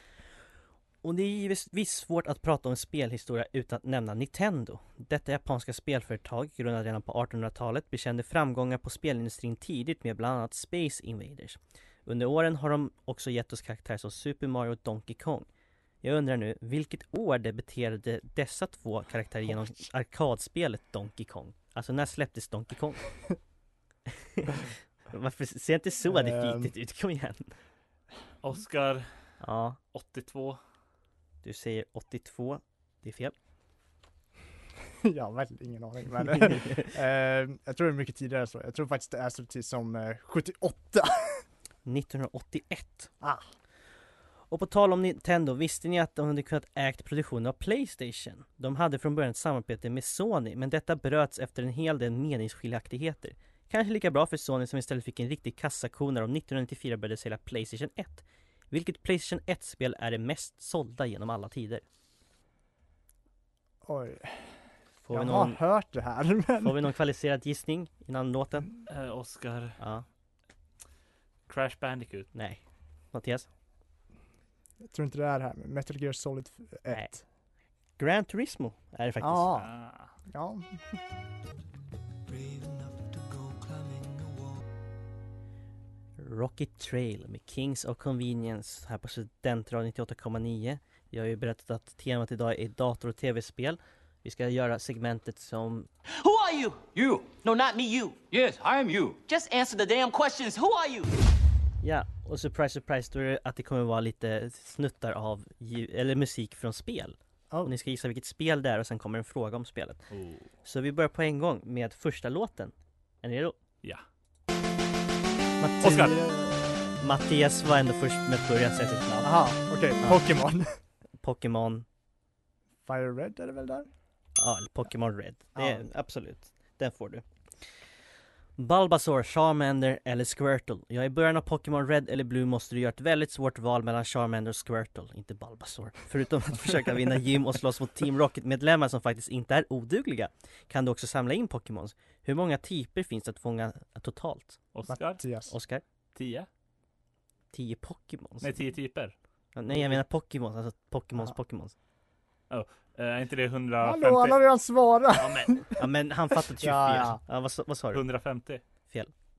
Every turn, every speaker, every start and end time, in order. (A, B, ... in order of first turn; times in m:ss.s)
0:01.0-0:15.4 A
0:16.0-0:23.0 A
0:24.1-0:27.5 A
0:26.0-0:26.7 B
0:28.4-0:29.1 C
0:29.4-0:29.8 A
0:29.9-0:30.6 C
0:31.4-0:33.3 A
0:35.0-0:41.4 B
0:41.8-0:43.1 A
0:43.2-0:43.4 B
0:44.5-1:01.8 A
1:03.8-1:04.6 B
1:05.0-1:05.6 A
1:05.1-1:06.8 B
1:06.6-1:08.7 A
1:08.9-1:09.8 C
1:09.8-1:10.0 A
1:11.5-1:12.3 C
1:12.3-1:12.6 A
1:13.1-1:13.5 A
1:14.8-1:17.2 B
1:18.0-1:19.5 A
1:19.2-1:19.7 B
1:19.5-1:20.1 C
1:20.3-1:20.8 B
1:22.2-1:24.6 D
1:26.2-1:35.9 A
1:36.1-1:41.3 D
1:41.8-1:50.0 A
1:50.1-1:50.5 C
1:50.6-1:53.6 A
1:55.6-1:59.3 A
1:55.8-1:56.2 C
1:59.2-2:00.8 B
2:01.2-2:01.8 A
2:02.8-2:03.9 B
2:04.4-2:07.2 A
2:05.5-2:05.8 B
2:08.6-2:24.6 A
2:24.7-2:25.2 C
2:24.9-2:25.5 B
2:25.5-2:25.8 A
2:26.1-2:26.5 C
2:27.5-2:28.7 A
2:28.4-2:29.1 C
2:29.5-2:31.7 A
2:32.5-2:34.4 C
2:33.8-2:35.8 B
2:35.2-2:35.6 C
2:35.8-2:38.0 A
2:36.6-2:37.2 B
2:37.9-2:38.6 C